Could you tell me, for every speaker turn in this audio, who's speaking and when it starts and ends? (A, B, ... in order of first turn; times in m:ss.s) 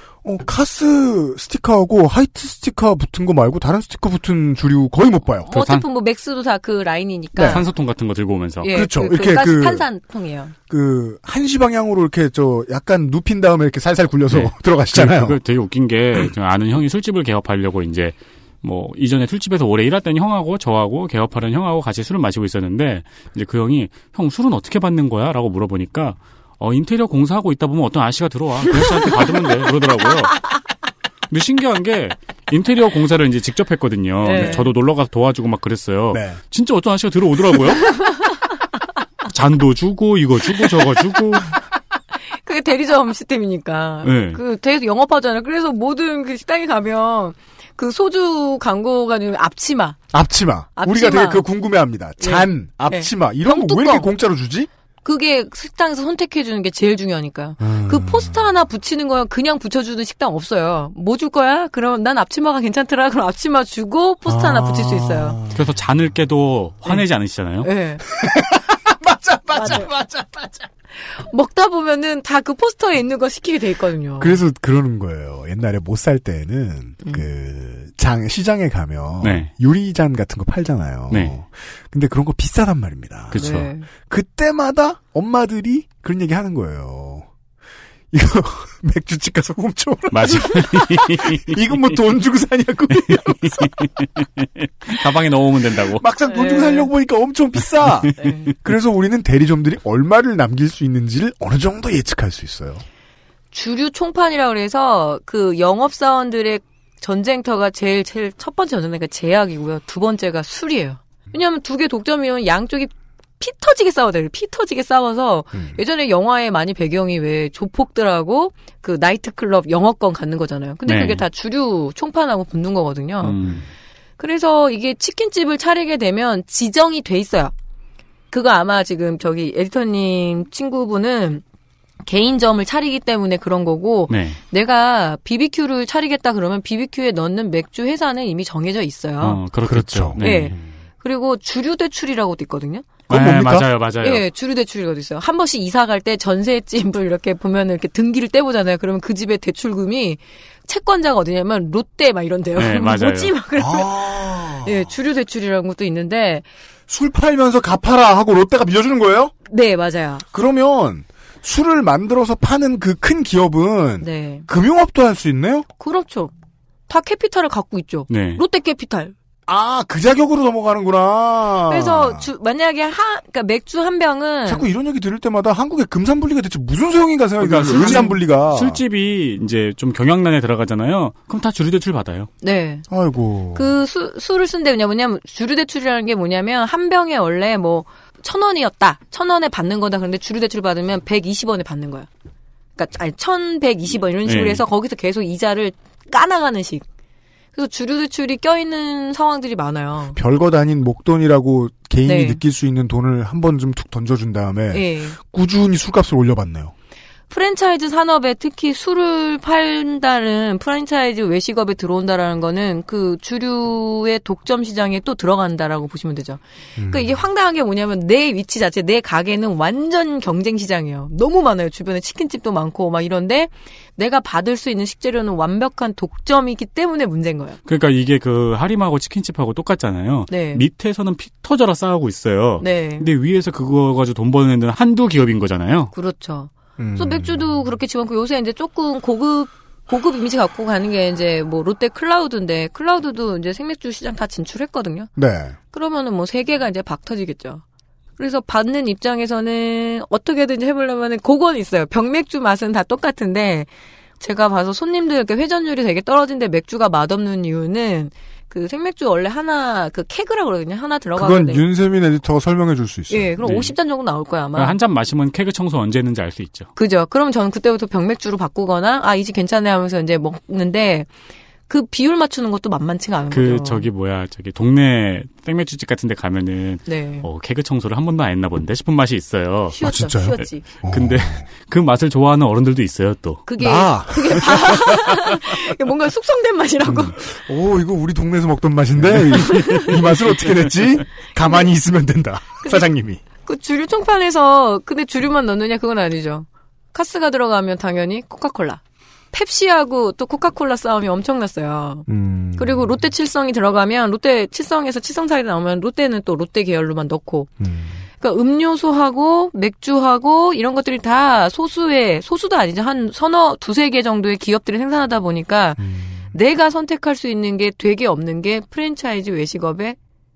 0:00.2-0:05.5 A
0:05.5-0:07.7 B
0:05.5-0:05.8 C
0:07.4-0:07.6 A
0:07.4-0:08.7 C
0:08.6-0:10.5 B
0:08.6-0:09.8 A
0:10.7-0:15.4 A
0:14.3-0:30.4 C
0:31.3-0:37.8 C
0:34.2-0:34.7 B
0:36.1-0:36.4 A
0:37.8-0:38.0 B
0:39.3-0:41.5 C
0:42.4-0:50.0 B
0:44.0-0:44.4 C
0:50.1-0:54.7 A
0:50.8-0:51.4 B
0:52.2-0:54.1 B
0:55.0-1:05.4 B
0:57.6-0:58.4 A
1:04.2-1:05.6 A
1:05.5-1:07.7 C
1:07.6-1:08.0 B
1:08.1-1:10.6 A
1:09.5-1:09.9 B
1:11.0-1:14.4 B
1:14.2-1:23.4 A
1:19.2-1:19.5 C
1:23.3-1:23.7 C
1:23.3-1:23.9 B
1:24.0-1:27.3 A
1:28.1-1:33.9 A
1:30.1-1:31.9 C
1:32.9-1:36.0 C
1:35.9-1:42.8 A
1:36.2-1:36.9 B
1:38.2-1:38.5 B
1:43.5-2:03.4 B
1:55.5-1:55.8 A
2:00.8-2:01.2 C
2:03.2-2:03.6 C
2:04.2-2:07.5 B
2:08.3-2:11.4 B
2:12.0-2:19.5 B
2:14.1-2:14.4 C
2:19.2-2:20.6 C
2:19.6-2:20.6 A
2:20.2-2:23.1 B
2:23.1-2:23.7 A
2:23.1-2:24.2 C
2:24.0-2:36.5 B
2:32.6-2:33.4 C
2:33.6-2:34.9 A
2:36.9-2:39.3 A
2:39.5-2:40.2 B
2:40.3-2:45.7 A
2:44.0-2:44.5 B
2:45.8-2:46.3 B
2:46.9-2:49.1 B
2:48.1-2:48.4 C
2:49.5-2:52.3 A
2:51.7-2:54.6 B
2:54.4-2:58.8 A
2:57.4-3:02.3 C
2:57.6-2:58.2 B
3:02.4-3:02.8 B
3:02.9-3:03.7 A
3:03.5-3:12.1 B
3:12.8-3:16.8 B
3:14.2-3:14.6 C
3:17.5-3:20.2 B
3:20.1-3:26.7 A
3:22.0-3:22.4 B
3:24.7-3:25.2 B
3:27.3-3:47.6 B
3:36.8-3:37.2 A
3:47.6-3:55.9 C
3:50.3-3:50.6 B
3:52.6-3:53.1 B
3:55.9-4:05.1 B
3:56.8-3:57.4 A
4:05.2-4:05.6 A
4:05.7-4:07.6 B
4:08.2-4:21.6 B
4:21.1-4:23.4 A
4:23.1-4:24.8 B
4:23.4-4:23.7 C
4:24.5-4:26.7 C
4:26.8-4:31.1 B
4:31.7-4:33.9 B
4:33.3-4:39.8 C
4:36.8-4:37.2 B
4:39.7-4:40.7 B
4:39.8-4:41.4 A
4:40.4-4:43.5 C
4:43.4-4:47.2 B
4:43.6-4:44.9 A
4:46.8-4:53.2 A
4:49.4-4:49.9 B
4:51.4-4:51.7 B
4:53.4-4:58.8 B
4:59.3-5:02.0 B
5:02.1-5:02.9 A
5:02.6-5:07.5 B
5:07.6-5:08.0 A
5:08.2-5:15.8 B
5:15.8-5:16.3 A
5:16.3-5:20.0 B